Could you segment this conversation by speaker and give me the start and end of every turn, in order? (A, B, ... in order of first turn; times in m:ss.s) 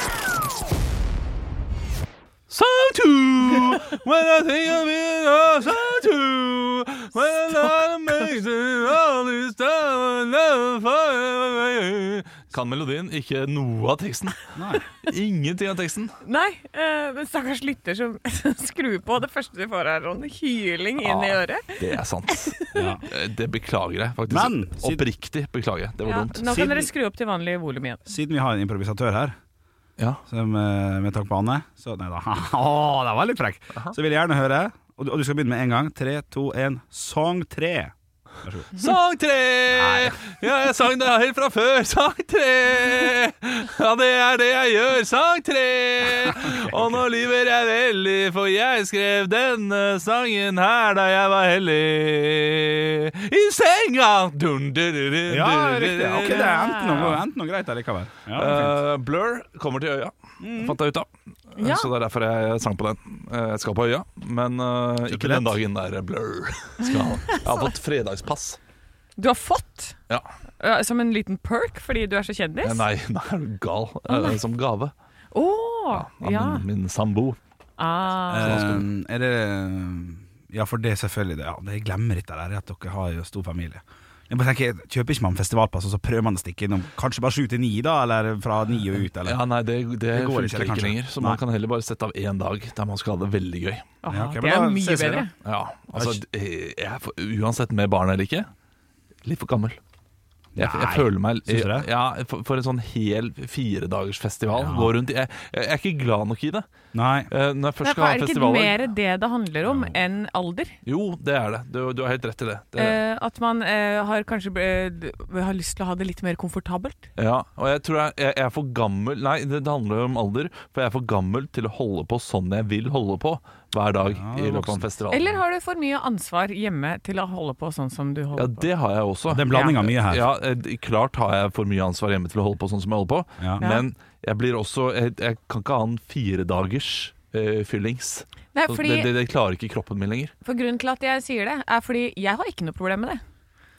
0:02.5-0:14.4 A
0:14.5-0:14.8 B
0:15.0-0:16.1 A
0:16.2-0:23.0 C
0:21.0-0:26.6 A
0:22.7-0:23.0 B
0:24.3-0:25.0 B
0:26.0-0:28.0 C
0:26.5-0:26.9 B
0:28.1-0:29.3 B
0:30.3-0:38.8 B
0:38.7-0:57.2 A
0:39.7-0:40.2 B
0:46.3-0:47.0 B
0:55.3-0:58.7 B
0:56.1-0:57.2 C
0:58.3-1:08.6 A
1:00.4-1:00.8 B
1:01.6-1:01.9 C
1:05.1-1:05.6 B
1:06.8-1:07.7 C
1:09.2-1:10.0 C
1:10.6-1:12.8 C
1:12.6-1:14.9 A
1:14.1-1:14.4 C
1:15.3-1:16.6 C
1:15.9-1:17.4 A
1:17.8-1:18.7 C
1:18.3-1:29.4 B
1:18.3-1:18.8 A
1:29.1-1:33.8 A
1:30.1-1:31.4 B
1:34.0-1:35.3 C
1:34.1-1:35.3 B
1:35.4-1:38.5 A
1:35.9-1:36.2 B
1:39.2-1:39.8 A
1:40.5-1:41.9 B
1:40.6-1:46.6 A
1:44.5-1:44.9 B
1:46.9-1:47.3 B
1:47.3-1:48.8 A
1:47.8-1:50.7 C
1:50.8-1:53.0 A
1:52.8-1:57.1 C
1:57.2-2:05.4 A
2:04.1-2:04.8 B
2:05.1-2:08.6 C
2:08.3-2:20.3 A
2:09.3-2:10.2 B
2:09.5-2:09.8 C
2:13.6-2:13.8 C
2:18.5-2:19.1 C
2:20.4-2:23.2 C